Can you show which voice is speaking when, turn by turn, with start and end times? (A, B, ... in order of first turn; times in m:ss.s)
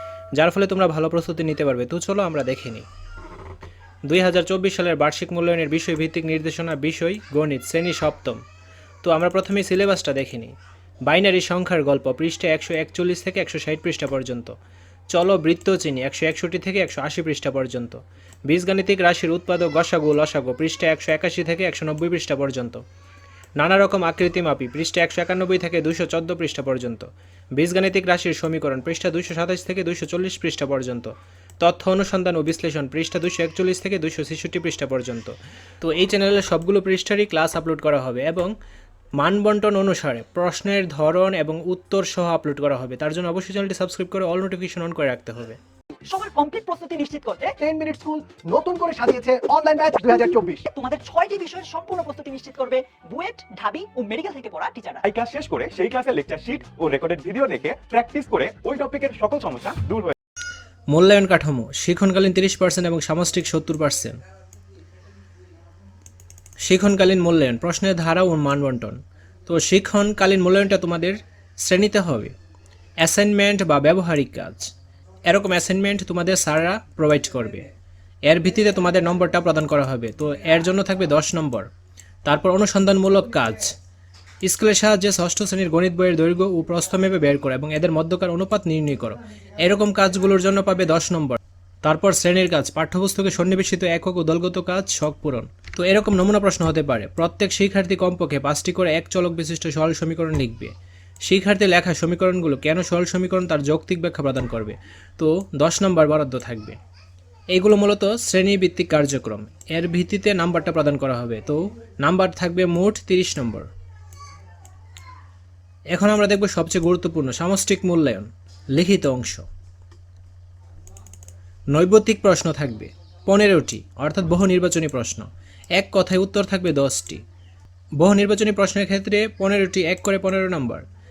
0:00.4-0:02.9 A
0:04.1-0:08.4 A
0:09.0-0:10.5 A
0:11.1-0:14.5 A
0:15.1-0:22.8 A
0:23.6-0:38.5 A
0:39.2-0:45.6 A
0:46.0-0:47.6 B
0:47.6-0:50.6 C
0:50.7-0:55.0 B
0:55.0-1:00.1 D
1:00.9-1:04.2 A
1:06.6-1:12.3 A
1:13.0-1:14.7 A
1:15.2-1:17.6 A
1:18.3-1:21.7 A
1:22.2-1:23.7 A
1:24.4-1:40.7 A
1:41.2-1:46.8 A
1:47.5-1:53.7 A
1:55.9-1:59.4 A
2:01.7-2:07.2 A
2:08.0-2:10.8 A